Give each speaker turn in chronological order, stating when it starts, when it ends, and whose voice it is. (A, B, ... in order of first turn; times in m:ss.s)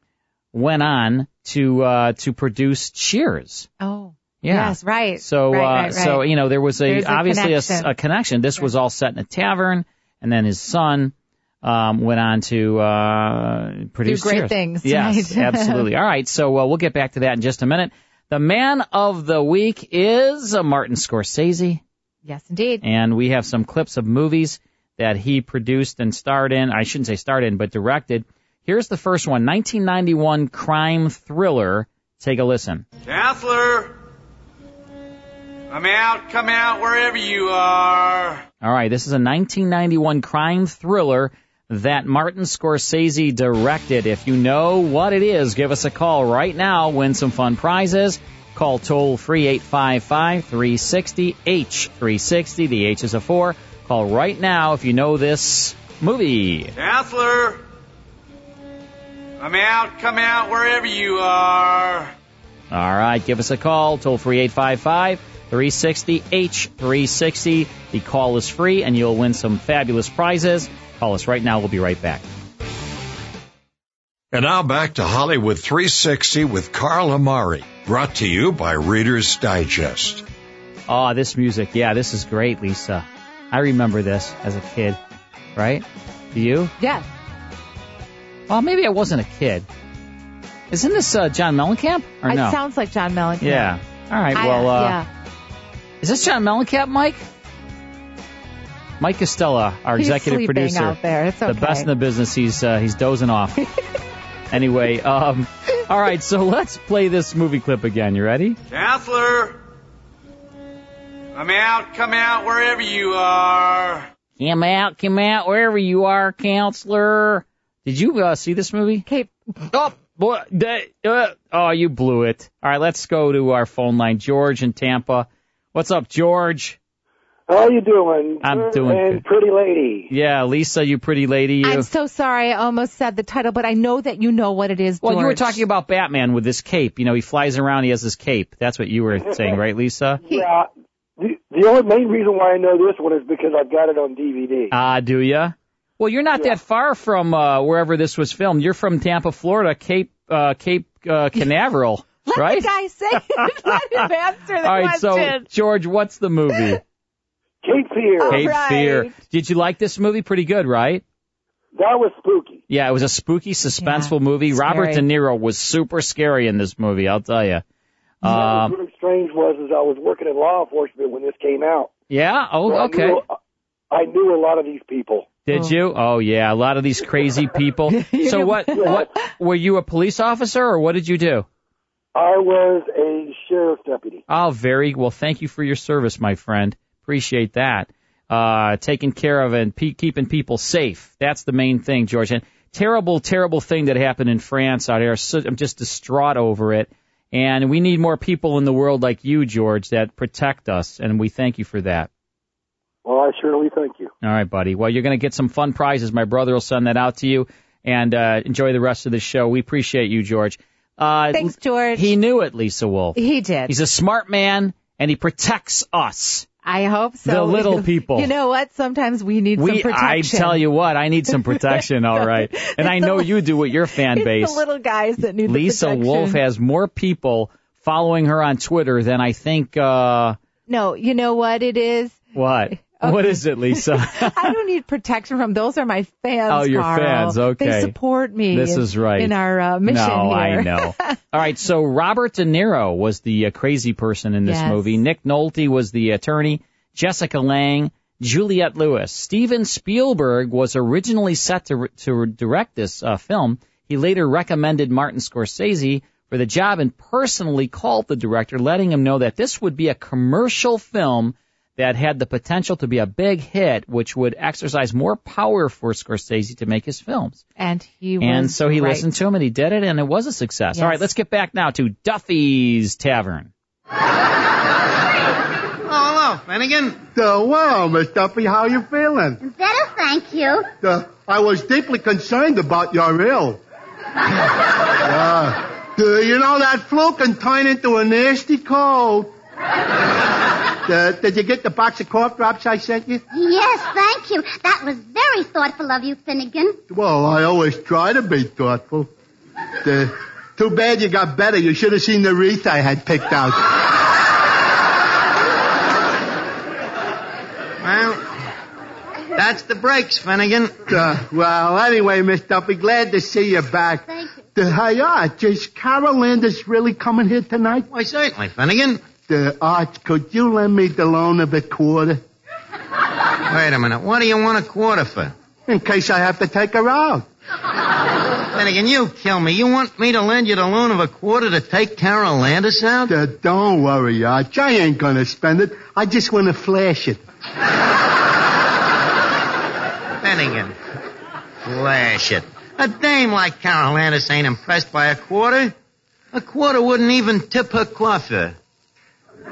0:00.5-0:03.7 A
0:03.8-0:06.2 B
0:04.4-0:21.8 A
0:06.8-0:07.9 B
0:14.0-0:15.9 B
0:22.2-0:22.8 B
0:22.8-0:32.8 A
0:33.0-0:33.9 C
0:35.7-0:38.4 C
0:38.6-0:56.7 A
0:56.8-0:57.6 C
0:59.4-1:02.1 C
1:02.7-1:12.2 A
1:14.3-1:20.2 D
1:20.9-1:25.0 A
1:25.5-1:26.7 A
1:26.8-1:27.0 B
1:28.5-1:29.7 A
1:30.7-1:32.6 A
1:32.3-1:33.7 B
1:33.4-1:35.0 A
1:34.3-1:35.1 B
1:36.0-1:37.2 A
1:39.0-1:43.7 A
1:40.0-1:41.9 B
1:44.5-1:48.6 A
1:48.7-1:49.6 C
1:51.3-1:54.1 C
1:54.4-1:59.0 A
1:59.0-1:59.3 B
1:59.7-2:06.8 A
2:07.5-2:10.1 E
2:08.4-2:09.2 A
2:10.1-2:11.9 A
2:11.6-2:15.6 B
2:15.0-2:20.2 A
2:20.2-2:24.7 E
2:24.7-2:32.7 A
2:32.2-2:35.5 B
2:33.3-2:34.0 A
2:34.6-2:36.8 A
2:37.6-2:38.4 E
2:38.2-2:39.1 B
2:38.2-2:41.0 A
2:41.7-2:42.6 E
2:42.7-2:47.6 A
2:43.8-2:45.0 B
2:48.2-2:48.7 A
2:48.2-2:51.9 E
2:52.1-2:53.2 A
2:52.7-2:53.2 E
2:53.9-2:55.3 E
2:55.5-3:01.5 A
2:57.9-2:59.0 B
2:58.7-2:59.0 E
3:02.1-3:04.2 E
3:04.3-3:22.1 A
3:23.0-3:24.1 E
3:24.2-3:36.5 A
3:31.3-3:32.1 B
3:33.2-3:33.7 B
3:36.6-3:40.6 B
3:37.2-3:38.3 A
3:39.6-3:44.6 A
3:42.2-3:43.4 B
3:44.1-3:46.4 B
3:45.4-3:50.4 A
3:50.7-4:01.2 B
3:52.3-3:54.5 A
3:56.5-3:57.9 A
3:58.5-4:27.4 A
4:04.4-4:05.0 B
4:27.6-4:29.1 B
4:28.2-4:33.5 A
4:30.7-4:31.1 B
4:35.8-4:37.0 F
4:37.1-4:39.4 G
4:39.4-4:40.7 H
4:40.8-4:43.6 G
4:45.0-4:49.3 G
4:50.8-4:53.2 G
4:53.3-4:56.8 H
4:56.9-4:59.1 G
4:59.8-5:03.6 G
5:07.8-5:08.2 F
5:09.3-5:10.8 F
5:10.9-5:17.8 G
5:17.9-5:19.0 F
5:19.3-5:22.2 G
5:23.5-5:25.3 F
5:25.7-5:27.2 G
5:28.5-5:33.1 F
5:33.1-5:37.2 G
5:40.2-5:40.7 F
5:41.6-5:45.7 F
5:46.3-5:48.6 F